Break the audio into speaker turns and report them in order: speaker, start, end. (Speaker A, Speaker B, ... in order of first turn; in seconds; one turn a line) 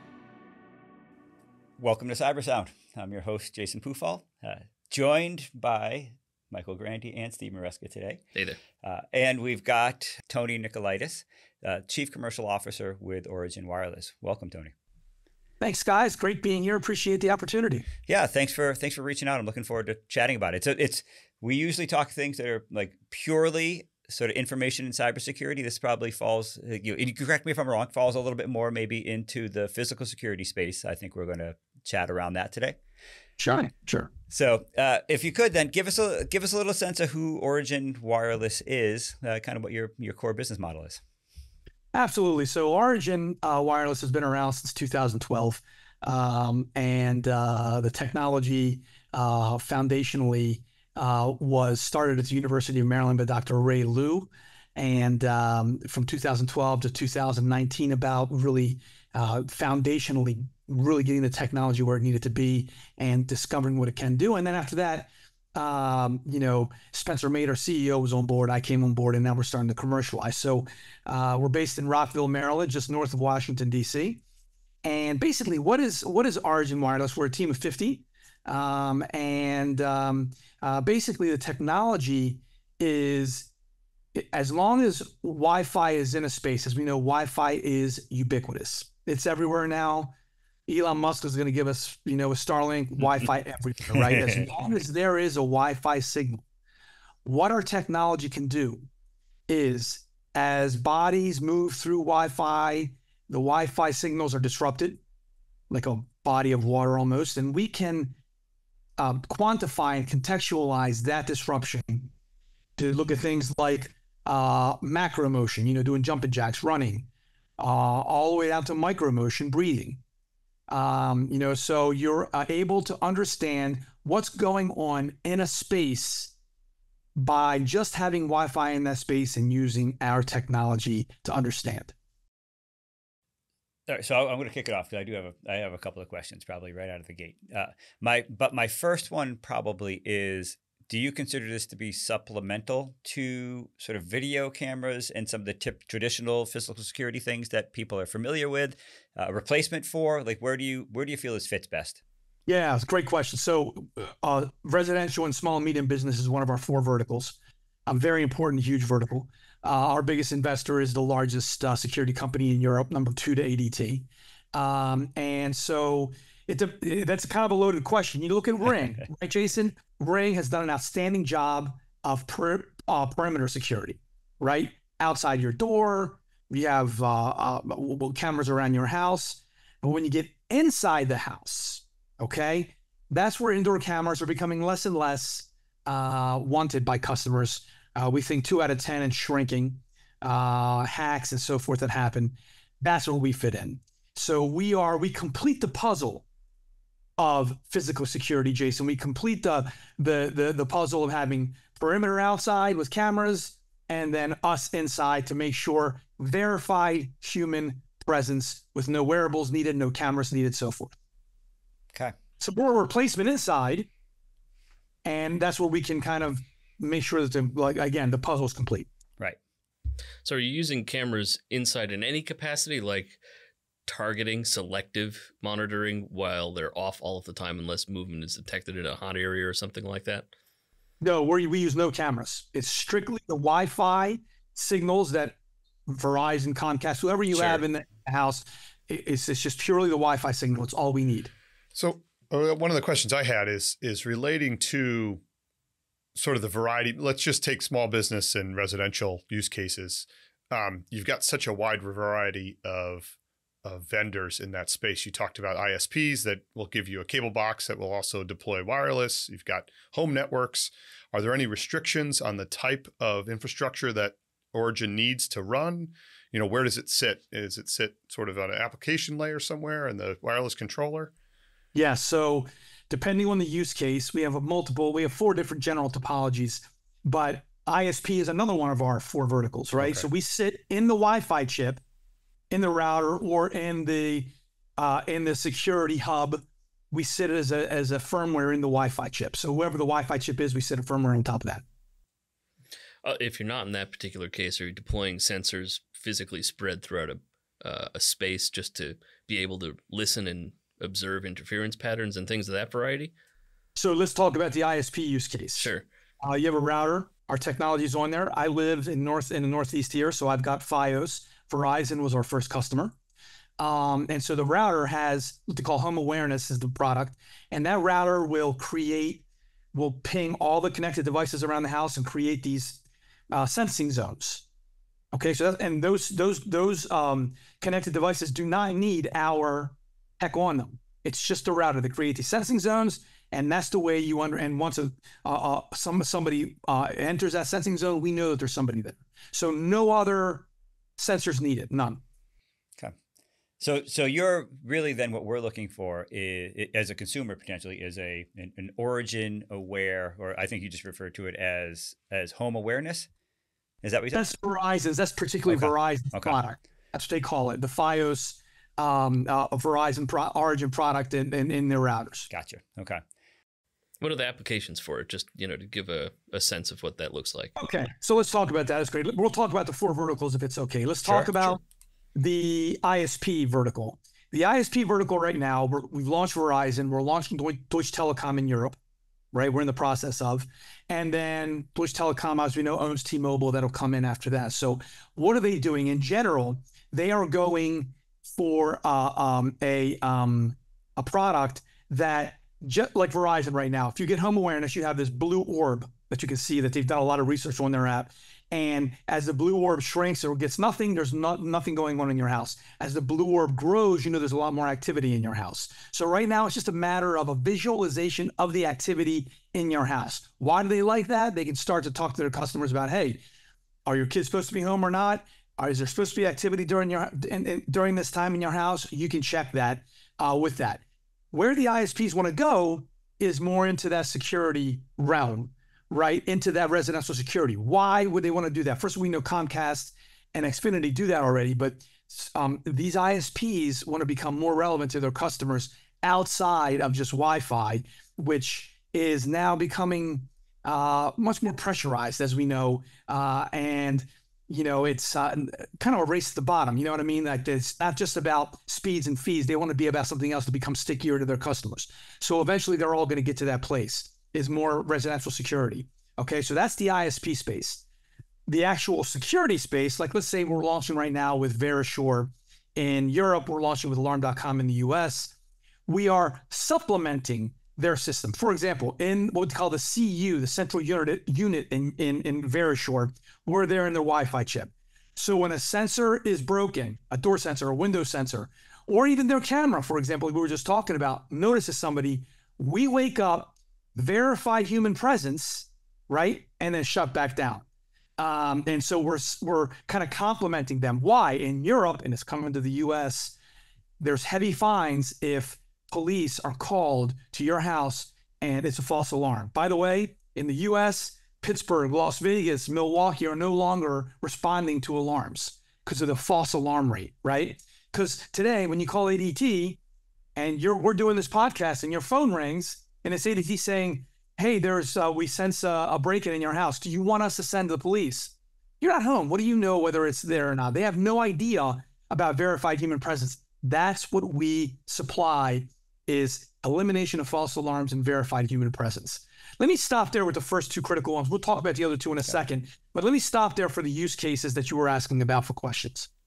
Speaker A: 1.8-8.2
Speaker B: 8.3-8.6
Speaker A: 8.8-14.7
Speaker C: 15.6-17.9
Speaker A: 18.1-32.8
Speaker C: 33.4-34.1
Speaker A: 34.3-41.0
Speaker C: 41.9-74.2
Speaker C: 74.8-83.5
Speaker C: 84.1-90.1
Speaker C: 90.7-96.4
Speaker C: 97.2-98.9
Speaker C: 99.5-105.0
Speaker C: 105.7-108.2
Speaker C: 109.0-112.1
Speaker C: 112.8-120.0
Speaker C: 120.7-126.3
Speaker C: 127.2-131.9
Speaker A: 133.9-152.0
Speaker C: 152.4-196.2
Speaker C: 197.2-210.9
Speaker C: 212.4-213.9
Speaker C: 215.0-218.9
Speaker B: 220.2-223.2
Speaker B: 223.8-230.3
Speaker C: 231.0-241.3
Speaker B: 237.3-237.7
Speaker D: 241.7-245.2
Speaker D: 246.2-271.1
Speaker C: 271.7-281.8
Speaker D: 279.8-280.1
Speaker C: 282.5-291.6
Speaker B: 293.0-303.1
Speaker C: 303.8-312.9
Speaker B: 305.6-305.9
Speaker C: 313.6-319.2
Speaker C: 319.7-324.4
Speaker C: 325.1-340.5
Speaker C: 341.0-342.0
Speaker A: 343.6-353.1
Speaker A: 353.8-354.3
Speaker C: 354.1-362.3
Speaker A: 355.5-356.4
Speaker A: 362.3-363.0
Speaker B: 364.0-367.5
Speaker C: 367.6-371.6
Speaker A: 371.0-371.6
Speaker C: 372.1-378.8
Speaker C: 379.3-413.2
Speaker C: 413.9-420.8
Speaker C: 421.3-457.8
Speaker C: 458.5-465.3
Speaker C: 465.9-487.6
Speaker C: 488.2-493.4
Speaker C: 494.0-509.8
Speaker C: 510.4-536.1